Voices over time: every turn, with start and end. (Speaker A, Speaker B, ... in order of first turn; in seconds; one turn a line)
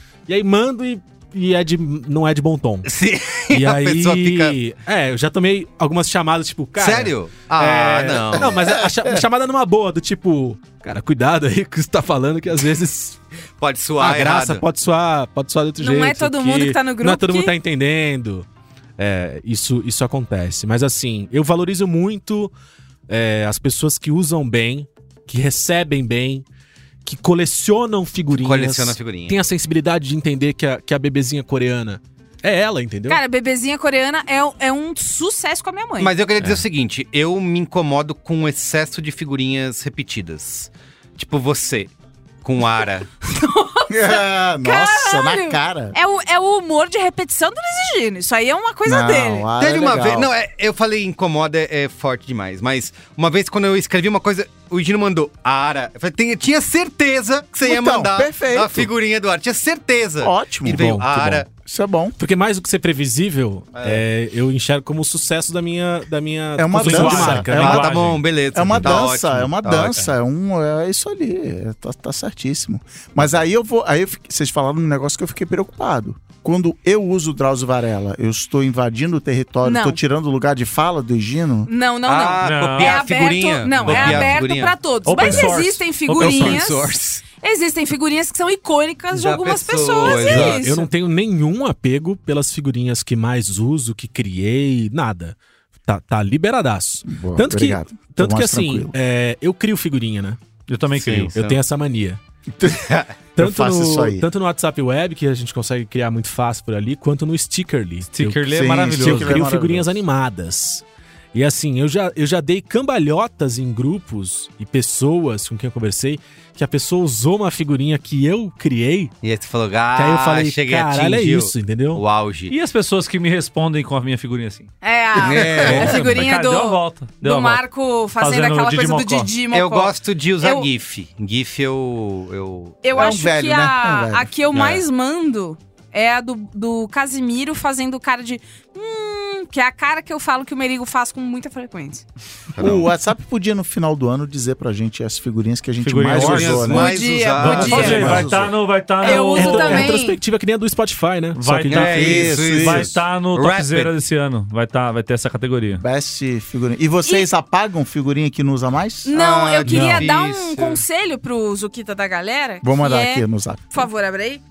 Speaker A: 0.3-2.9
Speaker B: 2.9-4.6
Speaker A: 3.5-13.2
Speaker B: 6.8-8.8
Speaker B: 13.6-14.6
Speaker A: 14.0-18.5
Speaker C: 15.8-17.5
Speaker A: 19.0-22.5
Speaker A: 23.1-26.4
Speaker A: 27.1-33.2
Speaker B: 28.3-29.4
Speaker C: 33.1-36.1
Speaker B: 36.0-43.1
Speaker C: 43.3-49.5
Speaker D: 43.9-46.0
Speaker D: 48.9-50.3
Speaker B: 49.6-61.5
Speaker D: 57.6-58.9
Speaker D: 60.2-61.0
Speaker A: 60.7-61.4
Speaker D: 61.5-62.2
Speaker A: 62.2-68.2
Speaker B: 63.8-64.0
Speaker D: 66.6-67.8
Speaker E: 66.8-68.2
Speaker B: 67.0-70.1
Speaker D: 68.5-81.7
Speaker C: 79.6-80.0
Speaker C: 81.7-90.9
Speaker B: 82.0-84.8
Speaker E: 82.4-83.0
Speaker E: 83.8-84.4
Speaker E: 85.0-86.7
Speaker A: 85.2-85.5
Speaker B: 86.2-87.2
Speaker B: 89.1-90.6
Speaker A: 90.0-100.4
Speaker D: 97.0-98.9
Speaker E: 100.7-101.3
Speaker B: 100.9-101.6
Speaker A: 101.3-102.2
Speaker D: 102.6-104.3
Speaker B: 102.7-103.1
Speaker A: 103.4-119.1
Speaker E: 108.1-109.5
Speaker D: 108.5-109.9
Speaker B: 119.2-122.5
Speaker A: 120.0-122.0
Speaker E: 122.5-124.7
Speaker C: 124.8-130.7
Speaker B: 125.2-126.3
Speaker E: 125.3-127.6
Speaker E: 128.2-129.3
Speaker B: 129.5-133.2
Speaker C: 132.8-142.1
Speaker D: 132.9-134.3
Speaker B: 134.5-134.8
Speaker B: 142.6-142.9
Speaker D: 142.6-148.6
Speaker E: 145.8-146.9
Speaker B: 146.1-148.3
Speaker C: 146.7-148.2
Speaker E: 147.4-149.9
Speaker C: 149.0-150.2
Speaker A: 149.0-152.3
Speaker E: 151.3-155.8
Speaker B: 151.7-153.9
Speaker D: 151.8-152.9
Speaker D: 155.8-159.1
Speaker C: 159.1-164.4
Speaker B: 159.1-160.8
Speaker A: 159.7-160.1
Speaker D: 162.6-163.9